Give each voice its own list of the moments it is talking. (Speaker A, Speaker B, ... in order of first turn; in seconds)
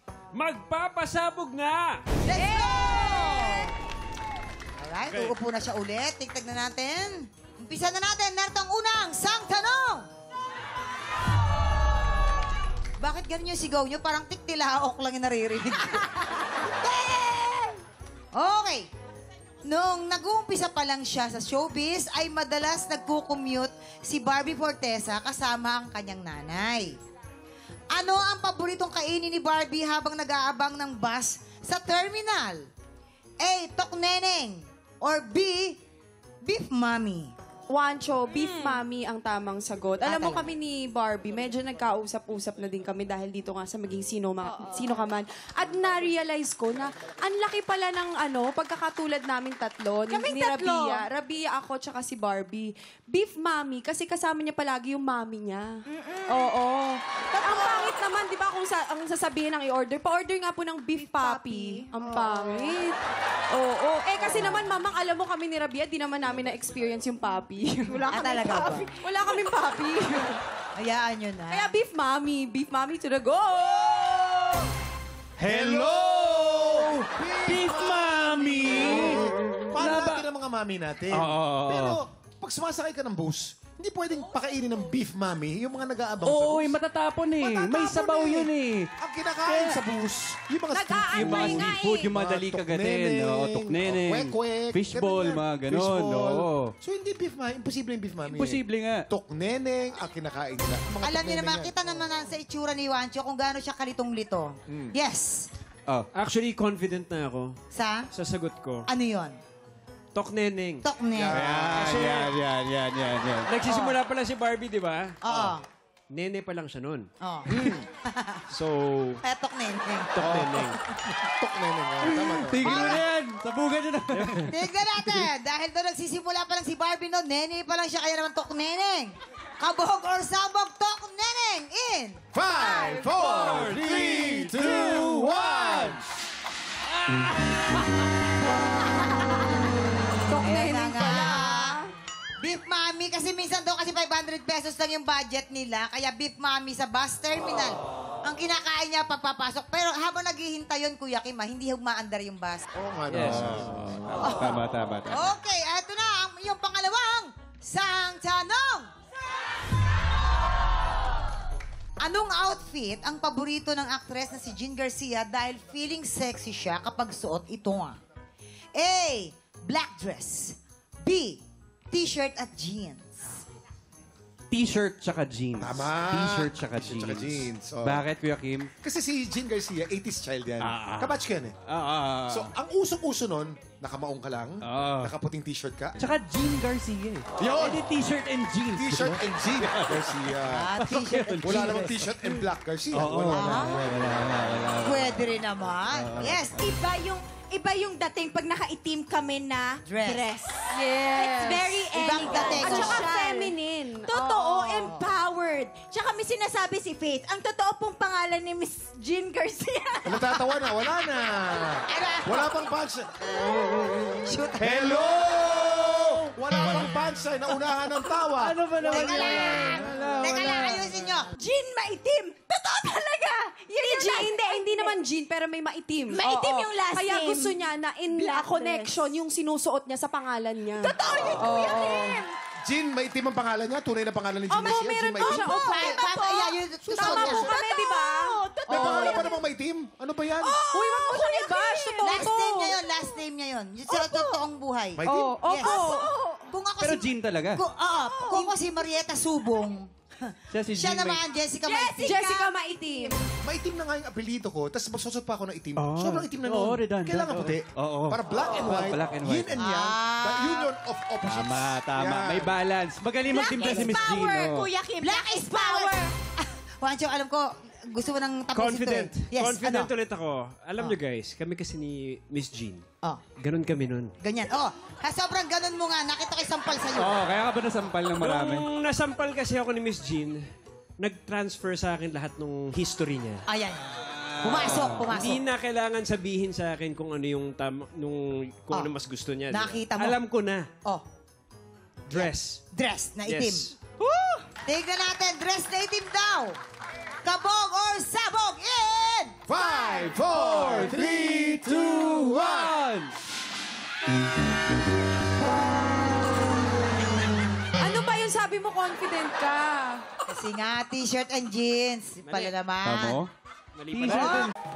Speaker A: 0.3-2.0, 5.1-5.3, 106.1-107.5, 108.1-108.9, 110.1-110.8, 111.5-112.3, 113.5-115.5, 116.1-117.6, 118.5-119.2, 120.1-120.8, 124.1-124.5, 153.1-153.6, 268.5-272.8, 273.4-274.1, 278.2-280.4, 281.0-283.4, 285.1-290.7, 292.1-292.6, 293.2-293.8, 312.2-312.6, 313.8-314.5
Speaker B: 2.2-3.7, 4.8-10.1, 13.0-17.8, 18.3-18.9, 19.6-26.9, 27.9-32.7, 33.4-35.8, 36.4-37.3, 40.0-40.4, 68.1-68.9, 70.8-71.7, 101.0-105.5, 107.7-108.1, 108.9-109.4, 110.8-111.5, 113.6-114.0, 115.2-115.6, 117.2-117.5, 118.1-118.4, 119.2-120.1, 122.6-123.0, 124.5-132.2, 140.4-141.8, 142.4-152.7, 154.2-158.9, 162.0-168.0, 168.8-173.4, 190.4-192.1, 193.2-194.1, 194.8-196.7, 199.9-200.3, 201.9-203.1, 204.8-205.1, 211.9-212.6, 214.2-214.9, 218.8-221.3, 235.4-237.5, 242.0-252.5, 259.6-260.7, 265.0-269.9, 274.2-277.2, 283.5-285.4, 289.5-290.2, 292.1-293.7, 294.7-296.6, 297.2-299.4, 310.3-313.2, 314.0-314.5
Speaker C: 37.7-55.8, 56.3-63.0, 63.5-68.0, 69.0-70.4, 71.5-74.6, 140.3-141.9, 200.7-204.9, 223.8-232.2, 234.5-236.2, 237.5-239.2, 240.7-242.7, 245.1-246.1, 252.0-253.2, 307.8-310.0
Speaker D: 38.4-38.8, 44.5-44.8, 50.1-51.1, 55.9-56.5, 57.4-57.9, 61.0-62.7, 67.9-68.9, 90.7-92.0, 196.6-210.3, 221.3-225.0, 226.1-229.1, 230.8-232.3, 234.5-239.5, 240.4-243.2, 243.9-244.4, 245.6-246.5, 248.0-248.7, 251.6-253.2, 263.3-266.1
Speaker E: 75.4-86.8, 87.4-101.8, 104.7-104.9, 111.1-111.8, 117.5-117.9, 120.2-123.0, 132.3-136.0, 152.7-154.3, 175.6-178.0, 178.8-181.6, 182.3-186.0, 187.4-187.8, 188.8-190.8, 191.4-194.2, 210.1-213.1, 214.6-220.2, 232.6-235.7, 236.8-237.8, 238.7-240.6, 245.0-245.4, 253.4-262.6, 263.6-263.9, 299.5-302.8
Speaker F: 75.5-76.6, 77.4-80.2, 81.1-82.0, 86.2-88.9, 89.4-89.8, 91.1-96.7, 98.2-99.0, 111.3-113.5, 122.0-124.5, 133.3-136.0, 153.2-155.3, 174.5-178.7, 180.6-182.5, 184.6-185.1, 186.0-195.3, 195.9-196.7, 218.4-220.7, 246.8-247.6, 250.5-251.2, 255.8-259.6, 261.2-264.7, 276.9-278.7, 284.1-285.1, 300.6-303.1, 312.8-313.3, 313.9-314.5